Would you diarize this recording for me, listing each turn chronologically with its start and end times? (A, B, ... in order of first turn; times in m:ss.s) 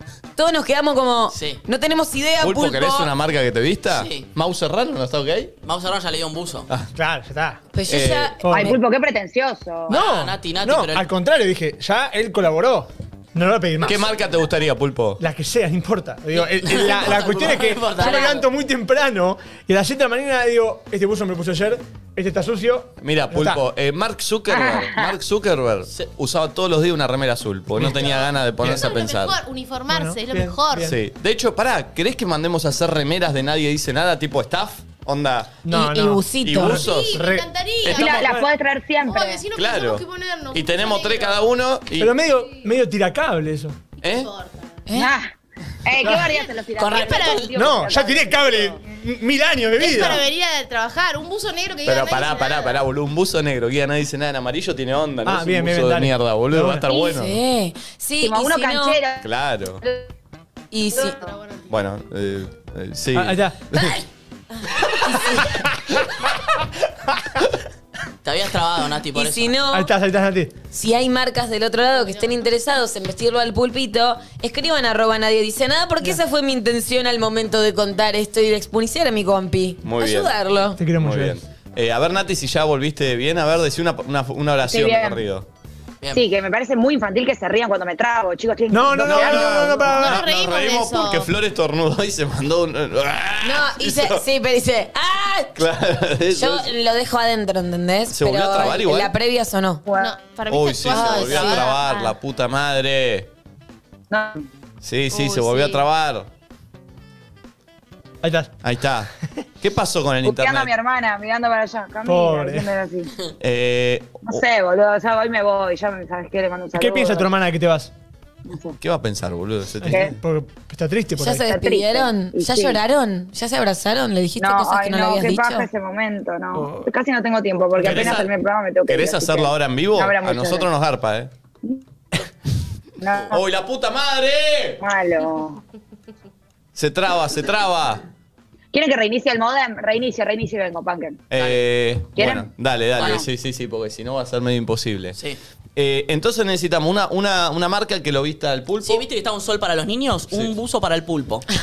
0:00.4-0:03.1 A
0:01.3-0:01.6 B
0:02.4-0:05.5 C
0:03.9-0:04.3 B
0:05.6-0:06.7 B
0:06.9-0:07.6 D
0:07.7-0:08.8 A
0:07.9-0:08.3 C
0:08.4-0:08.8 D
0:08.5-0:10.0 E
0:09.9-0:11.1 B
0:09.9-0:14.1 D
0:13.8-0:15.2 C
0:15.2-0:23.6 D
0:16.3-0:18.4 B
0:18.0-0:18.4 A
0:23.0-0:29.4 C
0:24.5-0:25.2 E
0:27.8-0:28.9 D
0:27.9-0:31.0 F
0:29.9-0:31.0 D
0:30.8-0:35.6 C
0:35.6-0:37.5 D
0:35.7-0:36.8 A
0:36.4-0:38.3 C
0:36.7-0:38.4 F
0:37.9-0:39.4 E
0:38.2-0:38.5 D
0:39.0-0:41.5 F
0:39.5-0:42.2 C
0:42.0-0:43.8 D
0:44.0-0:44.8 F
0:44.0-0:44.3 C
0:44.9-0:45.1 A
0:44.9-0:45.3 E
0:45.8-0:48.8 E
0:46.0-0:46.3 D
0:46.0-0:47.6 F
0:46.8-0:47.3 B
0:47.5-0:50.2 D
0:49.8-0:52.8 F
0:51.8-0:57.4 C
0:55.2-0:56.8 D
0:56.9-0:59.0 A
0:58.2-0:59.3 E
0:59.2-0:59.8 C
0:59.8-1:00.1 E
1:00.7-1:01.2 A
1:00.9-1:01.8 F
1:01.7-1:04.0 C
1:03.1-1:03.6 D
1:04.8-1:05.6 A
1:05.6-1:06.0 D
1:08.2-1:09.6 B
1:09.1-1:09.9 A
1:09.7-1:10.5 D
1:10.7-1:20.8 A
1:11.9-1:12.4 F
1:19.8-1:20.3 C
1:20.8-1:21.4 D
1:20.9-1:25.5 C
1:24.6-1:25.2 E
1:26.1-1:30.2 E
1:28.7-1:30.2 D
1:29.0-1:34.2 C
1:29.8-1:31.3 F
1:33.4-1:35.7 A
1:35.6-1:36.7 C
1:36.3-1:39.8 A
1:38.1-1:39.1 C
1:39.8-1:40.1 E
1:39.9-1:42.2 F
1:40.5-1:43.3 C
1:40.9-1:41.6 A
1:44.1-1:44.5 E
1:44.8-1:46.3 C
1:45.1-1:45.8 F
1:48.2-1:48.5 D
1:48.6-1:50.7 C
1:50.2-1:53.1 E
1:52.0-1:52.7 D
1:53.4-1:54.4 C
1:54.3-1:57.3 E
1:56.7-1:57.9 D
1:58.5-1:58.8 E
1:58.8-2:00.2 C
1:59.8-2:01.5 D
1:59.9-2:00.1 E
2:01.2-2:05.7 A
2:01.4-2:02.8 E
2:04.4-2:10.7 E
2:06.5-2:06.9 D
2:07.7-2:08.3 C
2:08.9-2:11.3 C
2:13.0-2:13.4 E
2:13.0-2:13.4 B
2:13.3-2:14.8 C
2:14.8-2:15.6 E
2:16.8-2:18.0 C
2:18.7-2:21.2 E
2:21.3-2:25.2 C
2:21.4-2:21.6 B
2:22.2-2:23.2 E
2:23.0-2:23.2 B
2:25.8-2:29.0 C
2:28.8-2:31.5 B